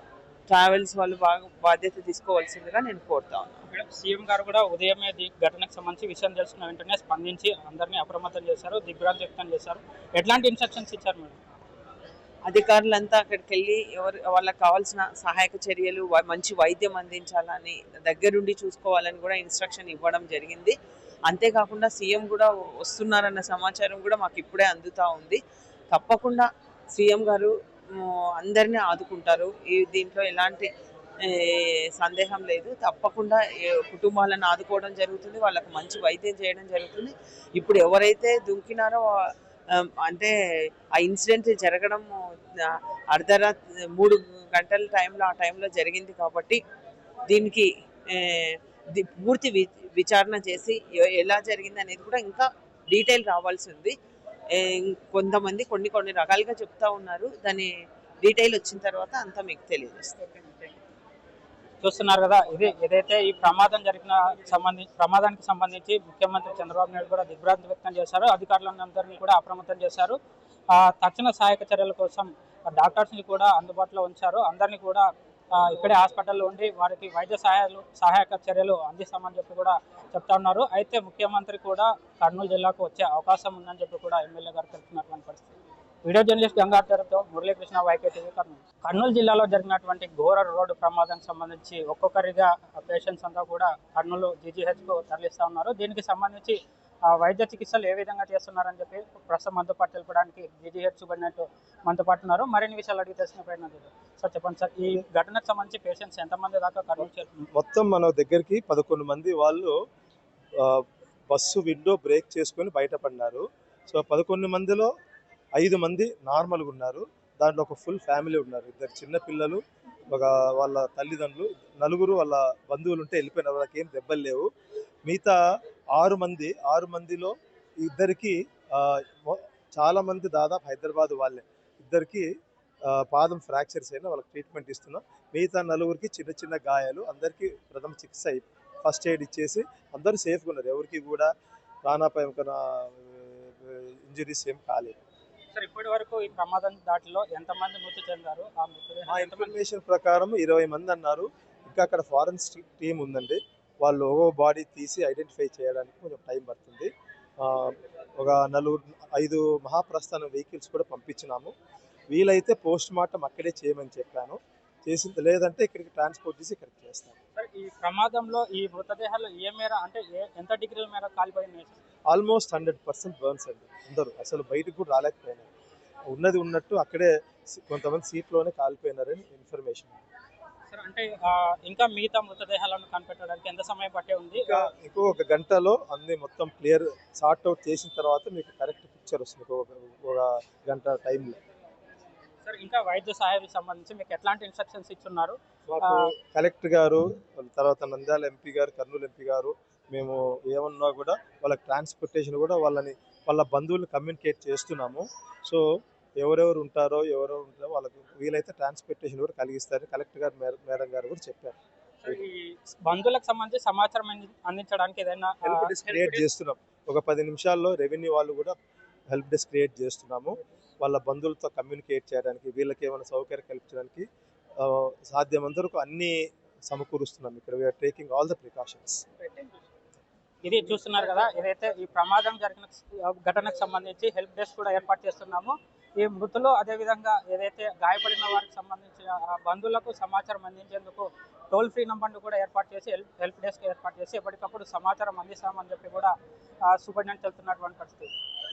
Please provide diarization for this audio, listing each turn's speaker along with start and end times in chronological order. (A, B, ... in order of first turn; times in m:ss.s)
0:00.5-0:03.6 A
0:03.7-0:11.4 B
0:12.4-0:20.8 A
0:21.3-0:25.4 A
0:25.9-0:30.7 A
0:31.2-0:40.3 A
0:40.9-0:46.6 A
0:47.3-0:54.0 A
0:54.5-1:00.2 A
1:01.8-1:10.2 B
1:10.7-1:25.5 B
1:26.0-1:47.4 B
1:47.5-1:49.7 C
1:50.6-1:54.9 C
1:55.6-2:04.5 C
2:05.0-2:05.4 C
2:05.9-2:12.3 C
2:12.9-2:21.3 C
2:21.8-2:25.0 C
2:25.5-2:29.5 B
2:29.0-2:36.9 C
2:37.4-2:41.5 C
2:42.1-2:47.2 C
2:47.4-2:51.8 B
2:52.1-2:55.5 C
2:56.1-3:00.0 C
3:00.7-3:04.7 B
3:04.3-3:11.4 C
3:12.4-3:16.1 B
3:15.7-3:25.6 C
3:26.2-3:32.2 C
3:32.0-3:36.2 B
3:35.4-3:38.5 C
3:39.1-3:44.0 C
3:44.6-3:46.1 C
3:46.7-3:49.0 C
3:50.4-4:06.1 B
4:06.6-4:08.1 B